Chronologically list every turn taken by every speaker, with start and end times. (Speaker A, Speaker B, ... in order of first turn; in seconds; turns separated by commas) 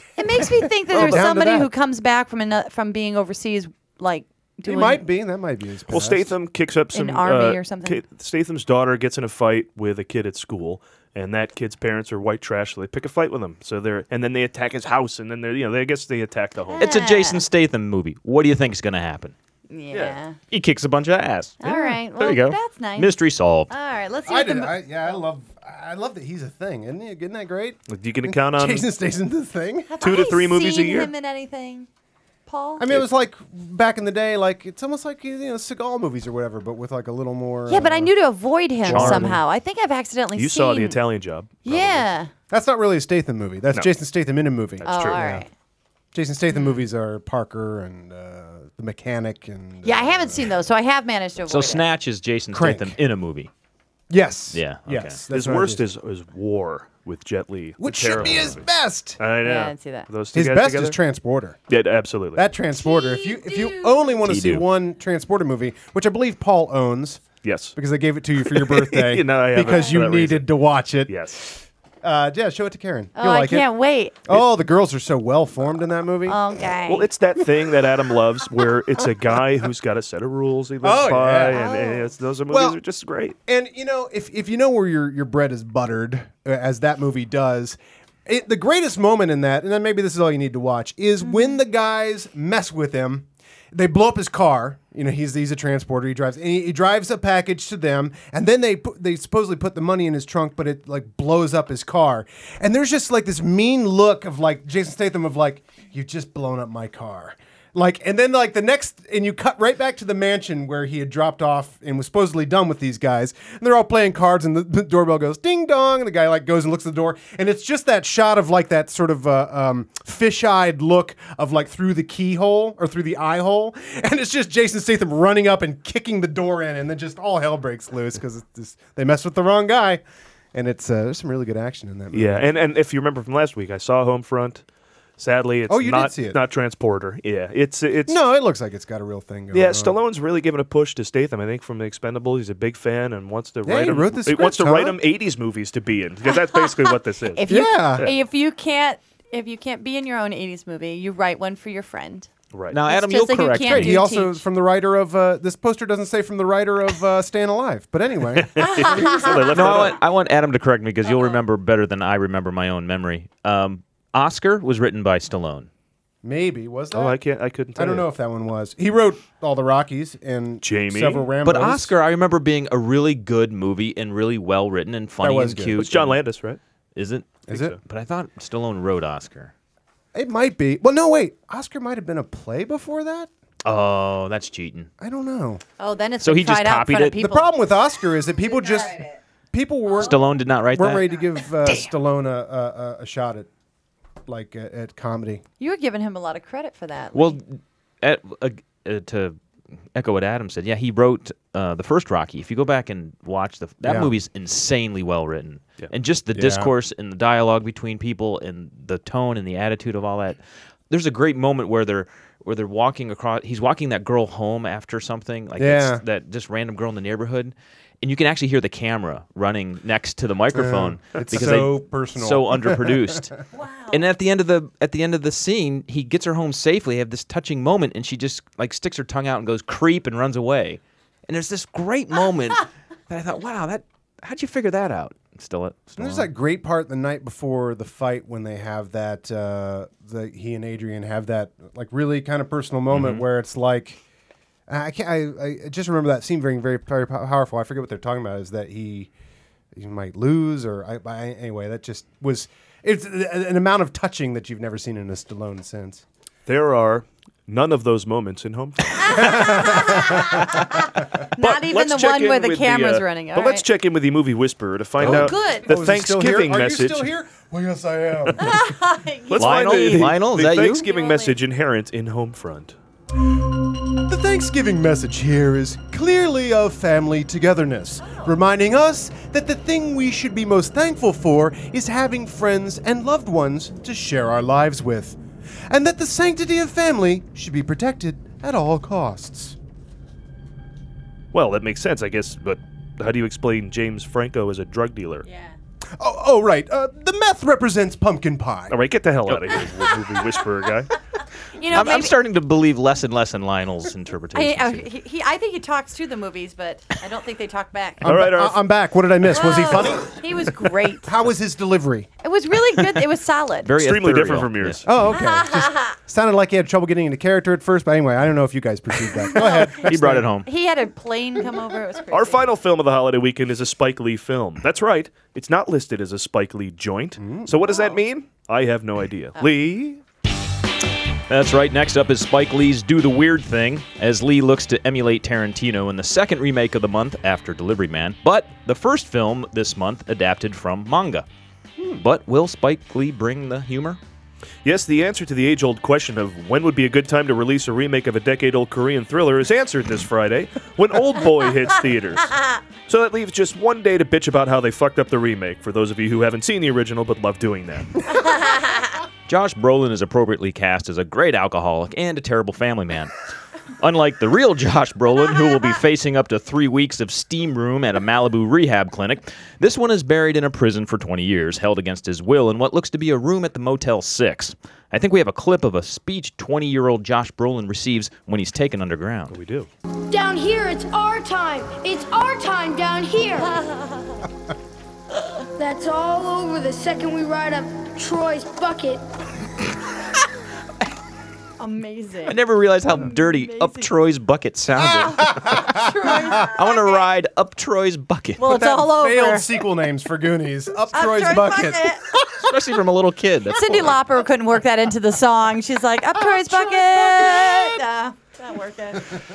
Speaker A: 0.2-5.0, Speaker B: 0.4-1.7, Speaker B: 4.6-6.3, Speaker C: 5.9-16.9, Speaker A: 6.9-8.0, Speaker A: 16.7-17.4, Speaker D: 16.8-19.3, Speaker A: 19.7-20.4, Speaker C: 19.9-20.2, Speaker D: 20.5-23.7, Speaker A: 21.6-23.1, Speaker A: 23.7-24.8, Speaker B: 24.2-29.9, Speaker C: 27.9-28.9, Speaker A: 29.9-31.9, Speaker C: 30.0-31.1, Speaker A: 32.5-32.9, Speaker B: 32.8-38.1, Speaker A: 37.7-41.0, Speaker B: 38.8-39.4, Speaker C: 38.9-39.2, Speaker C: 40.4-42.0, Speaker A: 41.6-42.3, Speaker B: 42.5-45.4, Speaker C: 44.8-45.3, Speaker A: 44.8-45.5, Speaker B: 46.1-50.5, Speaker A: 49.8-51.9, Speaker D: 51.4-53.5, Speaker B: 52.5-53.0, Speaker B: 54.1-55.9, Speaker D: 54.5-55.2, Speaker C: 55.3-58.6, Speaker B: 57.8-59.2, Speaker C: 59.2-61.0, Speaker A: 59.4-60.1, Speaker B: 60.3-61.6, Speaker C: 61.7-62.4, Speaker B: 62.3-73.6, Speaker A: 62.7-64.1, Speaker D: 64.2-64.6, Speaker C: 67.4-67.7, Speaker C: 68.4-70.5, Speaker C: 71.1-71.4, Speaker A: 73.2-74.2, Speaker B: 74.2-76.4, Speaker A: 76.3-77.1, Speaker C: 76.9-83.3, Speaker B: 80.8-81.6, Speaker A: 81.5-82.1, Speaker B: 82.5-82.8, Speaker B: 83.5-130.0, Speaker A: 91.2-91.5, Speaker B: 130.5-132.5, Speaker C: 132.1-134.6, Speaker C: 135.2-138.2, Speaker B: 135.7-136.4, Speaker B: 138.1-139.9, Speaker C: 139.5-148.1, Speaker B: 143.6-145.0, Speaker A: 146.4-146.7, Speaker A: 147.3-152.3, Speaker B: 147.5-148.1, Speaker C: 152.5-152.8, Speaker D: 152.7-154.0, Speaker A: 152.9-154.4, Speaker B: 153.7-159.4, Speaker C: 158.3-160.0, Speaker D: 159.3-165.7, Speaker B: 166.2-167.2, Speaker C: 166.9-168.1, Speaker B: 167.7-171.9, Speaker C: 170.6-171.3, Speaker D: 171.4-176.2, Speaker B: 175.2-175.9, Speaker C: 175.8-176.6, Speaker D: 176.9-179.5, Speaker C: 177.5-177.8, Speaker B: 177.5-177.8, Speaker B: 180.1-183.3, Speaker D: 183.6-184.9, Speaker B: 185.0-185.6, Speaker A: 185.8-187.5, Speaker D: 186.2-187.2, Speaker B: 187.2-193.5, Speaker D: 190.0-191.1, Speaker B: 194.3-195.4, Speaker A: 195.6-197.4, Speaker D: 197.1-199.4, Speaker D: 199.9-223.3, Speaker B: 203.8-204.1, Speaker B: 206.3-206.7, Speaker B: 215.6-216.0, Speaker B: 220.5-223.3, Speaker A: 223.5-224.0, Speaker D: 223.9-236.3, Speaker B: 236.0-244.0, Speaker D: 242.9-243.2, Speaker B: 244.7-249.1, Speaker B: 249.7-256.0, Speaker C: 256.5-259.6, Speaker B: 259.1-260.4, Speaker A: 259.1-263.6, Speaker C: 261.4-267.1, Speaker B: 265.0-268.6, Speaker A: 265.0-265.7, Speaker A: 268.4-271.3, Speaker C: 269.3-272.7, Speaker D: 269.4-270.8, Speaker B: 273.9-289.6, Speaker A: 278.0-278.3, Speaker C: 291.3-295.2, Speaker A: 295.2-295.5, Speaker B: 296.0-298.8, Speaker C: 298.7-300.9, Speaker D: 299.3-299.6, Speaker A: 301.5-302.1, Speaker D: 301.7-304.9, Speaker A: 304.3-308.1, Speaker B: 308.0-312.1, Speaker C: 308.0-308.6, Speaker A: 309.3-311.1, Speaker A: 312.2-313.7, Speaker D: 313.6-314.8, Speaker C: 313.8-314.8, Speaker B: 314.8-320.3, Speaker A: 315.1-315.9, Speaker A: 319.3-322.5, Speaker D: 319.5-320.5, Speaker C: 322.1-330.0, Speaker B: 327.2-327.8, Speaker D: 331.3-341.3, Speaker B: 341.8-342.0, Speaker D: 342.0-344.0, Speaker C: 344.6-358.0, Speaker D: 359.3-363.1, Speaker D: 363.8-379.3, Speaker C: 379.3-379.7, Speaker E: 380.1-383.6, Speaker A: 383.4-384.2, Speaker E: 385.6-389.0, Speaker A: 391.6-392.4, Speaker D: 392.2-395.7, Speaker A: 393.0-393.9, Speaker B: 394.8-396.4, Speaker A: 395.6-397.1, Speaker D: 396.4-398.5, Speaker A: 398.4-399.5, Speaker B: 398.4-402.6, Speaker A: 400.9-402.0, Speaker D: 402.4-403.9, Speaker A: 403.5-409.2, Speaker B: 406.1-407.8